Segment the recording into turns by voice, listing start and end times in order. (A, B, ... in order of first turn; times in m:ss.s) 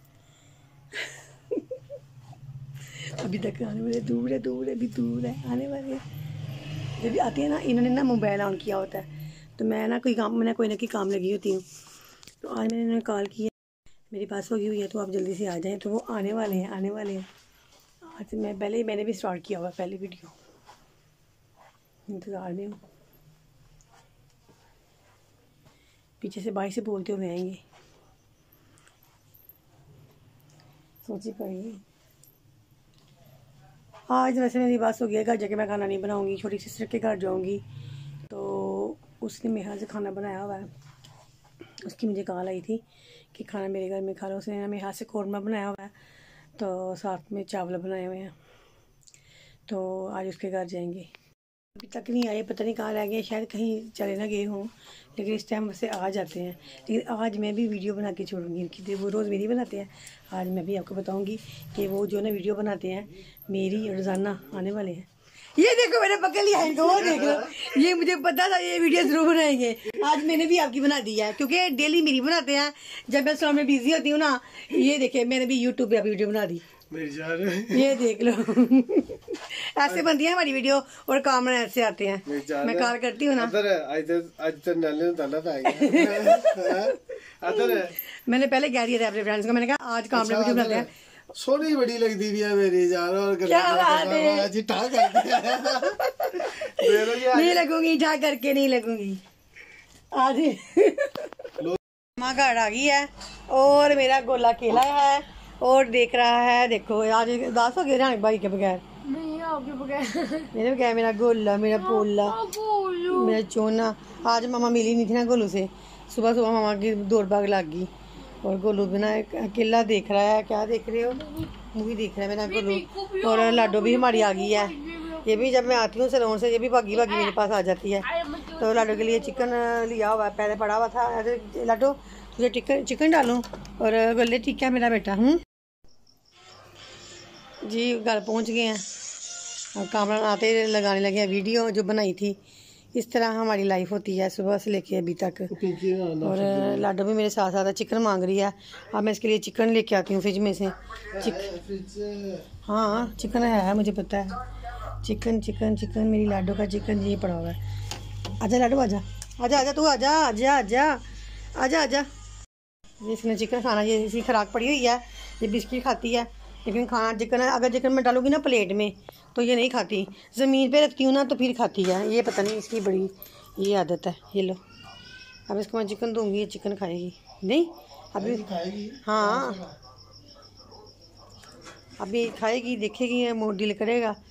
0:00.9-0:01.8 A
0:02.8-0:06.0 A
0:07.0-0:11.6 A
0:12.4-0:13.5 A
0:14.1-0:17.3 A
0:18.0-0:20.4 A
0:22.1-0:22.8 A
0:26.2-0:27.6 A
0:31.0-0:31.8 A
0:34.1-0:37.6 A
0:38.3-0:40.7 A
0:41.8-0:42.8 A
0:43.3-0:45.9 A
0:46.6-0:48.3 A
0:49.7-0:51.1 A
0:51.7-1:16.6 A
1:16.9-1:17.9 B
1:17.7-1:23.5 A
1:22.2-1:27.9 B
1:25.6-1:30.9 A
1:30.1-1:36.0 B
1:33.4-1:34.5 A
1:35.1-1:39.2 A
1:36.5-1:37.6 B
1:40.1-1:41.5 A
1:42.2-1:48.8 A
1:49.0-1:50.5 C
1:50.5-1:52.4 A
1:51.7-1:53.4 C
1:53.0-2:15.4 A
2:02.4-2:05.7 C
2:07.0-2:07.4 C
2:08.0-2:09.5 C
2:17.6-2:18.8 A
2:19.7-2:22.4 A
2:22.9-2:25.5 A
2:25.5-2:26.8 B
2:26.2-2:31.5 A
2:31.1-2:32.4 B
2:32.6-2:34.4 A
2:35.0-2:37.6 A
2:38.4-2:41.0 A
2:41.6-2:42.1 A
2:43.0-2:54.6 A
2:55.5-2:58.4 A
2:58.2-2:59.6 B
2:59.0-2:59.6 A
3:02.0-3:04.2 A